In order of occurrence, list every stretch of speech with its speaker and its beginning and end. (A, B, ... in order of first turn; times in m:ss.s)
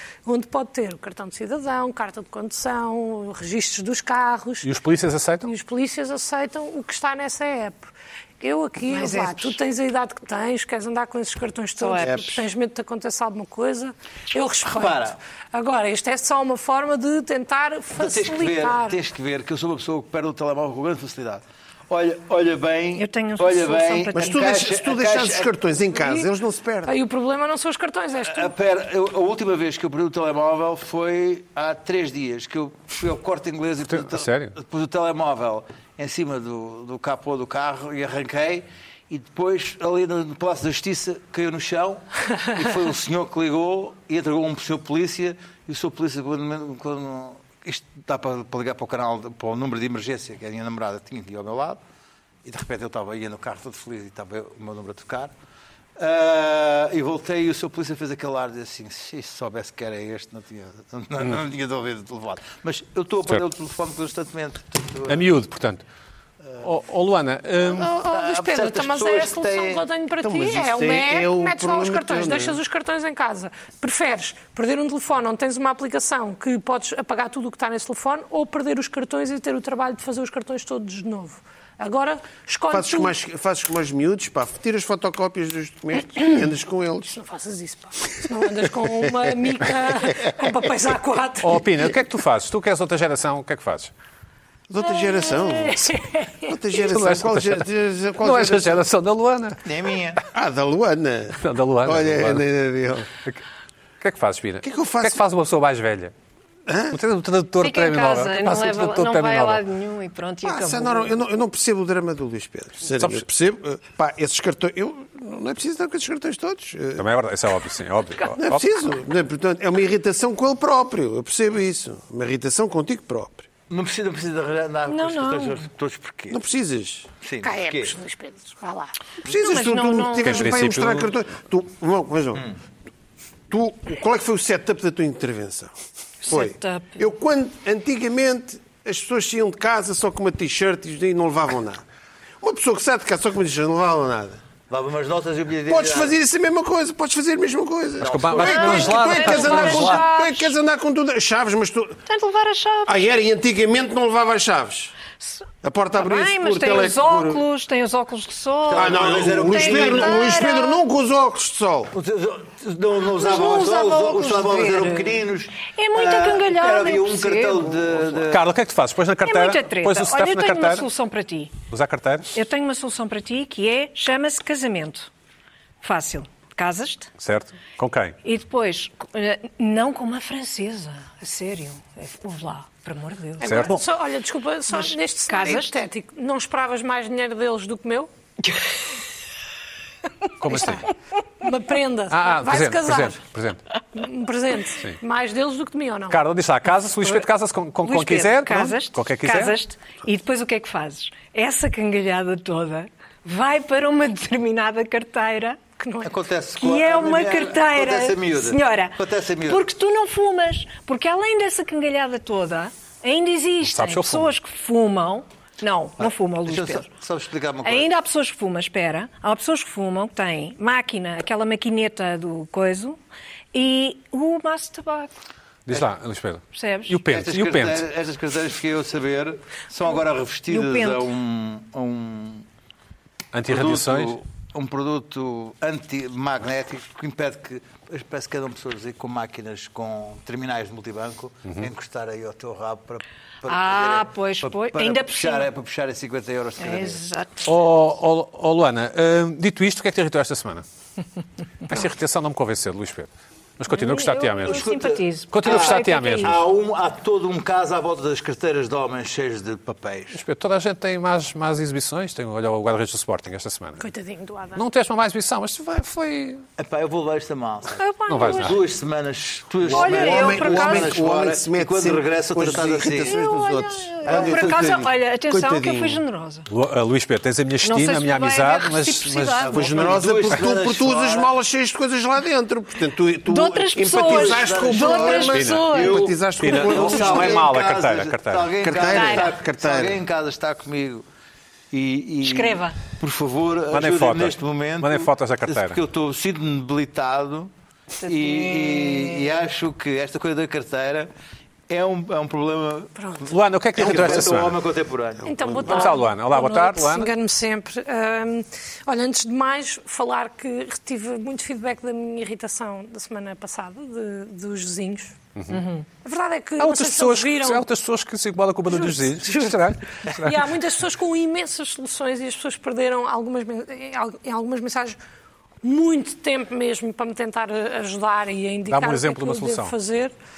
0:00.2-0:04.7 A
0:04.6-0:05.5 B
0:05.4-0:19.0 A
0:08.9-0:09.6 C
0:11.8-0:12.2 C
0:12.0-0:12.4 D
0:14.6-0:15.2 E
0:18.0-0:25.5 E
0:23.0-0:24.5 C
0:24.1-0:27.0 D
0:26.0-0:26.3 A
0:26.9-0:28.5 A
0:28.2-0:51.8 E
0:33.9-0:34.6 B
0:52.4-0:55.3 E
0:56.0-1:05.2 E
1:05.1-1:05.8 B
1:06.6-1:07.9 B
1:07.8-1:23.1 A
1:07.8-1:09.8 E
1:10.2-1:12.6 D
1:22.7-1:27.2 D
1:27.1-1:31.6 A
1:31.4-1:33.9 B
1:34.7-1:38.9 D
1:35.0-1:36.6 A
1:36.9-1:39.6 B
1:39.6-1:40.2 E
1:40.3-1:43.1 D
1:41.4-1:42.4 B
1:44.0-1:46.1 B
1:44.6-1:45.2 D
1:46.7-1:47.0 D
1:46.9-1:49.6 B
1:47.6-1:51.2 C
1:50.4-1:57.1 D
1:53.0-1:53.2 B
1:57.0-1:58.9 B
1:58.4-2:03.5 D
2:03.7-2:06.4 E
2:04.9-2:05.6 C
2:06.3-2:07.1 D
2:07.2-2:08.0 E
2:07.4-2:09.0 A
2:09.2-2:12.5 D
2:09.3-2:10.6 C
2:10.2-2:11.1 B
2:13.5-2:15.7 D
2:16.2-2:17.0 C
2:16.3-2:21.8 D
2:22.4-2:24.4 D
2:24.7-2:26.1 E
2:25.7-2:32.0 D
2:28.0-2:29.8 E
2:28.0-2:30.1 B
2:28.4-2:30.5 C
2:32.1-2:33.0 C
2:32.9-2:35.0 D
2:35.6-2:37.4 D
2:36.0-2:40.8 C
2:38.7-2:40.4 E
2:38.7-2:41.9 D
2:41.9-2:48.5 E
2:43.1-2:47.7 C
2:48.3-2:50.9 B
2:49.2-2:51.5 C
2:51.7-2:52.3 B
2:52.3-2:55.1 C
2:55.8-2:57.1 C
2:57.2-2:58.2 B
2:58.2-3:03.7 C
3:03.4-3:08.1 A
3:03.4-3:03.8 B
3:04.7-3:05.8 C
3:10.4-3:10.9 B
3:10.5-3:10.8 A
3:11.4-3:13.2 A
3:12.1-3:13.6 B
3:13.9-3:16.2 A
3:16.1-3:19.6 B
3:17.8-3:25.6 C
3:25.8-3:26.2 A
3:26.0-3:29.6 E
3:26.6-3:36.9 C
3:33.6-3:34.4 B
3:36.0-3:37.9 E
3:37.6-3:43.0 C
3:43.5-3:45.1 C
3:45.7-3:47.9 B
3:46.5-3:47.0 C
3:47.0-3:52.5 E
3:50.5-3:51.1 C
3:53.3-3:54.2 B
3:53.5-4:07.0 E
4:03.5-4:05.5 C
4:06.6-4:07.6 C
4:07.4-4:10.6 B
4:11.7-4:14.7 B
4:13.7-4:16.3 C
4:14.5-4:20.2 E
4:15.3-4:16.3 B
4:20.1-4:23.8 B
4:23.8-4:24.6 A
4:24.6-4:26.4 B
4:26.6-4:33.2 E
4:27.8-4:28.6 C
4:28.1-4:28.6 B
4:29.6-4:31.0 C
4:29.6-4:36.0 D
4:33.0-4:36.5 C
4:34.0-4:34.9 E
4:36.5-4:39.5 B
4:37.6-4:39.8 C
4:39.4-4:41.3 E
4:39.4-4:47.5 D
4:43.3-4:46.0 C
4:43.8-4:51.0 E
4:45.3-4:45.7 B
4:46.4-4:48.6 B
4:48.6-4:50.0 D
4:48.8-4:49.3 C
4:51.7-4:57.5 E
4:52.2-4:52.8 C
4:53.7-4:55.8 B
4:58.0-4:59.3 C
4:58.0-5:01.1 E
5:01.7-5:05.9 E
5:03.0-5:03.2 A
5:03.3-5:04.6 B
5:05.2-5:05.9 D
5:05.2-5:15.2 A
5:05.7-5:07.1 B
5:15.5-5:15.9 C
5:16.0-5:17.7 A
5:16.6-5:20.5 B
5:18.7-5:25.0 A
5:25.6-5:30.1 A
5:28.7-5:29.7 B